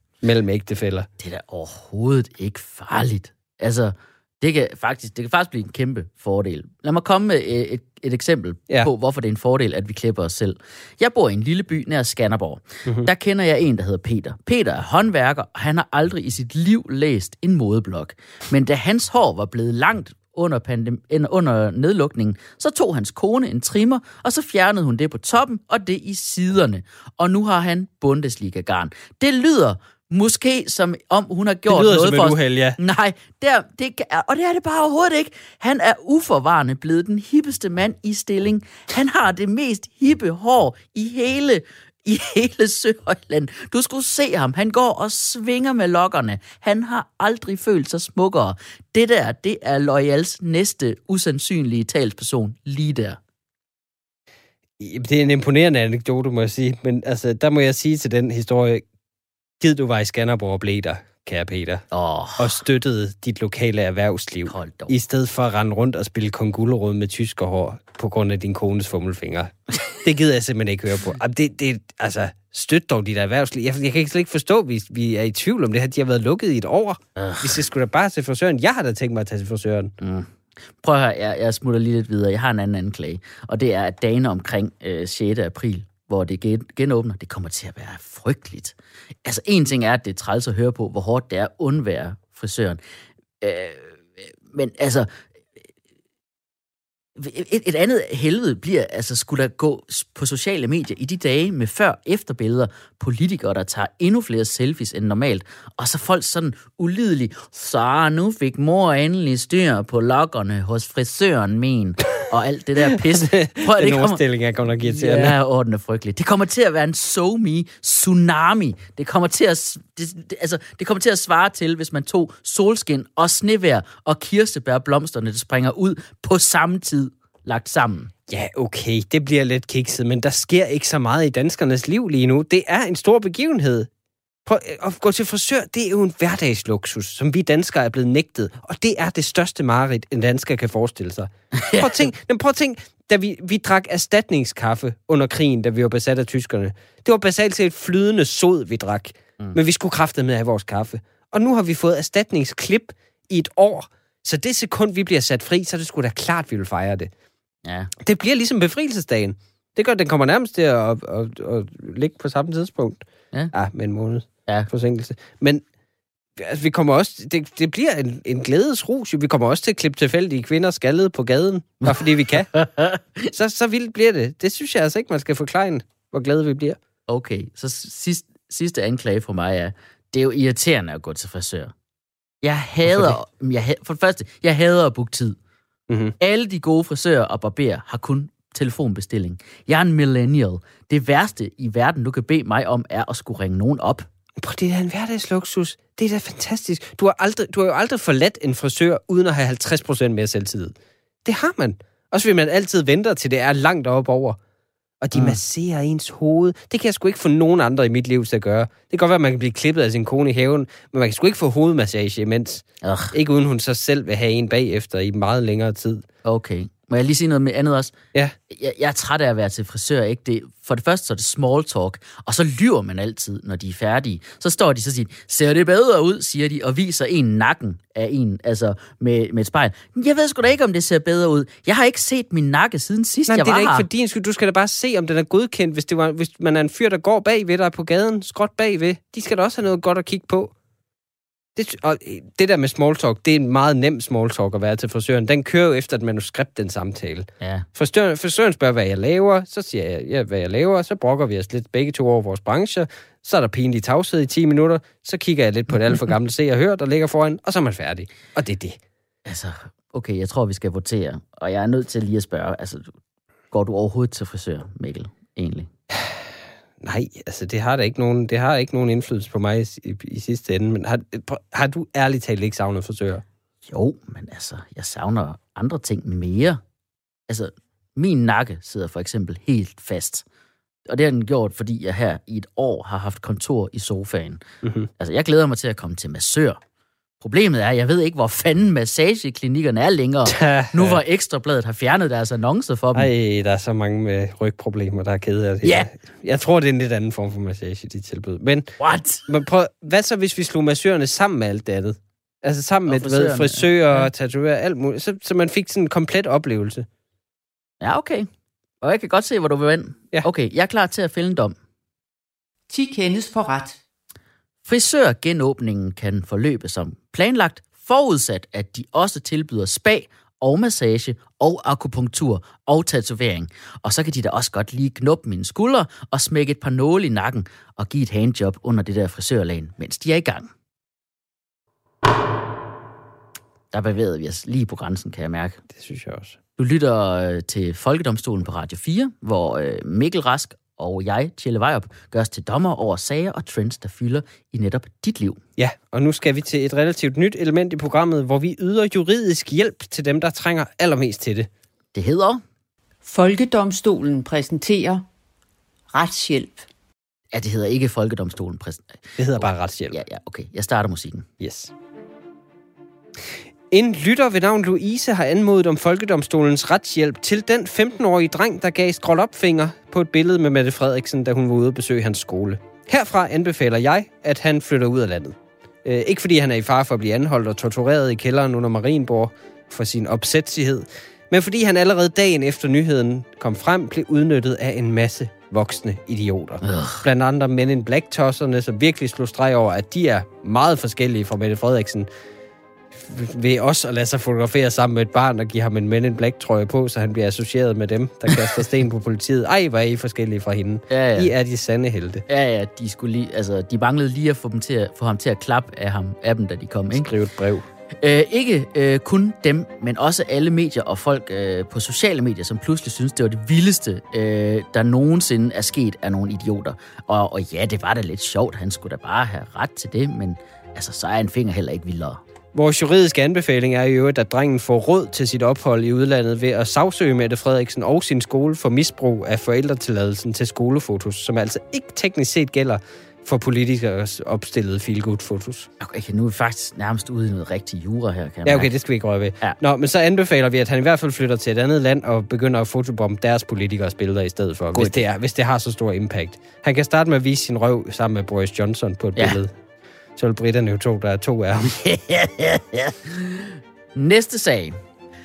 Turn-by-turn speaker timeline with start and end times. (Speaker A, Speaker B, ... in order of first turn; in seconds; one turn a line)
Speaker A: 0.2-1.1
Speaker B: 1.2-53.2
Speaker A: 31.7-32.8
Speaker A: 54.8-58.9
Speaker A: 59.6-61.9
Speaker B: 61.9-62.6
Speaker A: 62.4-79.9
Speaker B: 64.5-64.9
Speaker B: 77.2-77.6
Speaker B: 80.0-92.8
Speaker B: 93.4-95.1
Speaker B: 97.2-114.2
Speaker A: 112.9-115.4
Speaker B: 114.8-128.1
Speaker A: 128.3-133.9
Speaker A: 134.4-157.1
Speaker B: 141.5-142.1
Speaker B: 157.6-157.9
Speaker A: 158.0-165.6
Speaker A: 166.4-172.5
Speaker B: 171.9-173.3
Speaker A: 173.3-176.8
Speaker B: 177.1-181.7
Speaker B: 182.4-185.4
Speaker A: 182.9-183.2
Speaker A: 185.9-186.1
Speaker B: 186.2-194.1
Speaker A: 194.4-204.4
Speaker A: 205.0-216.0
Speaker B: 212.8-213.1
Speaker B: 216.2-217.9
Speaker B: 218.5-233.9
Speaker A: 233.3-240.5
Speaker A: 241.6-258.8
Speaker B: 247.4-247.7
Speaker B: 259.3-262.9
Speaker B: 263.5-265.7
Speaker A: 265.9-266.2
Speaker A: 266.8-273.2
Speaker B: 273.7-276.6
Speaker B: 277.3-280.2
Speaker B: 280.9-284.4
Speaker A: 284.6-284.9
Speaker B: 285.0-286.6
Speaker B: 287.2-293.1
Speaker A: 290.3-291.0
Speaker A: 292.9-306.9
Speaker B: 295.6-295.9
Speaker B: 298.8-299.2
Speaker B: 302.9-304.1
Speaker B: 307.8-308.3
Speaker B: 308.8-311.6
Speaker C: 312.7-313.8
Speaker B: 314.6-330.5
Speaker B: 333.7-335.6
Speaker A: 335.7-336.4
Speaker B: 336.6-345.4
Speaker A: 345.6-351.5
Speaker B: 351.9-352.4
Speaker C: 353.1-355.1
Speaker C: 355.9-356.7
Speaker B: 357.3-361.3
Speaker A: 359.2-360.0
Speaker A: 361.4-361.7
Speaker A: 363.7-392.1
Speaker B: 386.6-387.0
Speaker A: 392.9-402.2
Speaker B: 400.9-401.3
Speaker B: 402.3-407.1
Speaker A: 406.9-407.6
Speaker B: 407.9-422.2
Speaker A: 422.5-435.7
Speaker B: 435.8-438.7
Speaker A: 438.4-449.5
Speaker B: 444.8-445.0
Speaker A: 450.2-451.8
Speaker B: 451.6-454.8